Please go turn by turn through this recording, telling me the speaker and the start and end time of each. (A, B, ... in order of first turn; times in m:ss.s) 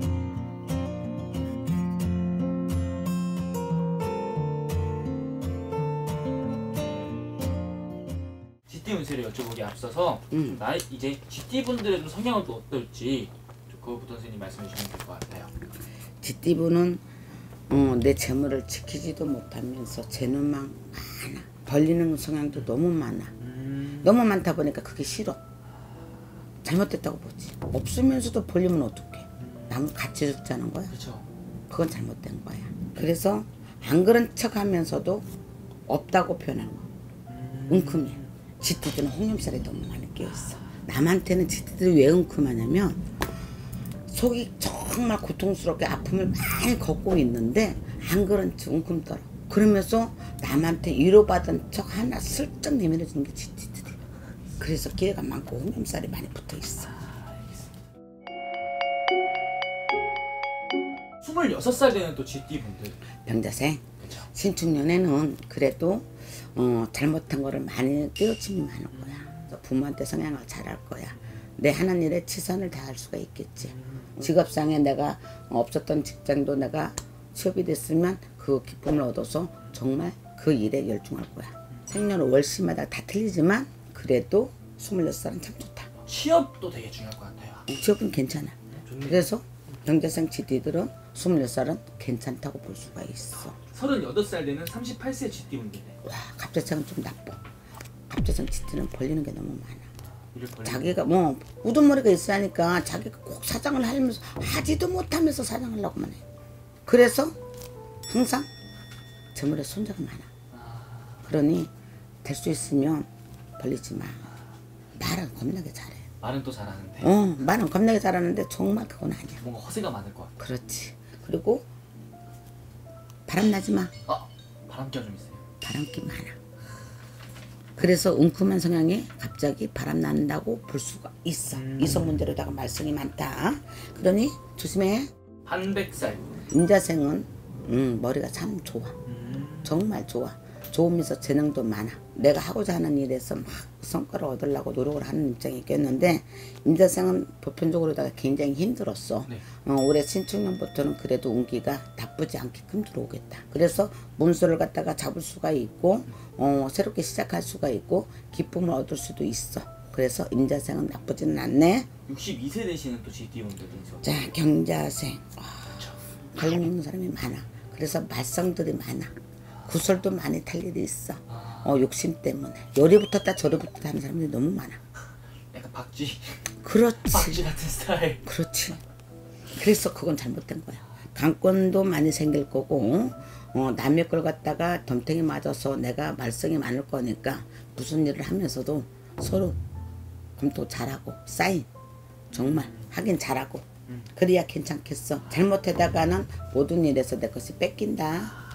0:08.7-0:15.5 A
0:10.3-0:10.6 B
0:16.2-0:17.0 B
0:17.7-0:23.4 B
0:23.4-0:24.1 A
0:24.0-0:25.4 B
0:26.6-0:30.9 B
0:29.4-0:29.8 A
0:30.9-0:31.3 A
0:31.7-0:35.3 B
0:35.9-0:36.9 B
0:37.3-0:38.3 A
0:37.7-0:43.0 B
0:40.3-0:40.7 A
0:44.1-0:54.0 B
0:54.6-0:57.0 B
0:57.1-0:57.4 A
1:01.2-1:03.0 A
1:03.2-1:25.9 B
1:04.0-1:04.3 A
1:08.9-1:09.5 A
1:13.7-1:14.2 A
1:26.0-1:27.7 A
1:27.7-1:33.6 B
1:28.7-1:29.3 A
1:33.4-1:36.0 A
1:36.0-1:37.4 B
1:38.1-1:39.9 B
1:40.3-1:41.0 A
1:40.6-1:46.2 B
1:46.9-1:47.4 B
1:48.1-1:48.5 B
1:49.4-1:50.3 B
1:50.5-1:51.3 A
1:51.2-1:51.7 B
1:52.2-1:53.1 B
1:53.6-1:54.3 B
1:55.0-1:56.1 B
1:56.2-1:57.2 A
1:57.0-1:59.4 B
1:59.4-2:00.4 A
2:00.4-2:01.7 B
2:03.3-2:03.9 B
2:04.1-2:05.4 A
2:05.6-2:06.4 B
2:07.8-2:15.1 B
2:11.5-2:12.2 A
2:15.4-2:16.3 A
2:16.5-2:19.0 B
2:19.1-2:19.8 A
2:19.6-2:41.9 B
2:42.1-2:44.2 A
2:44.0-2:49.1 B
2:45.7-2:46.2 A
2:49.6-2:54.8 B
2:51.3-2:51.8 A
2:55.5-2:56.4 A
2:56.6-2:57.4 B
2:57.1-2:58.2 A
2:58.2-2:58.8 B
2:59.5-3:09.6 B
3:10.4-3:11.7 B
3:12.3-3:12.9 A
3:12.3-3:18.4 B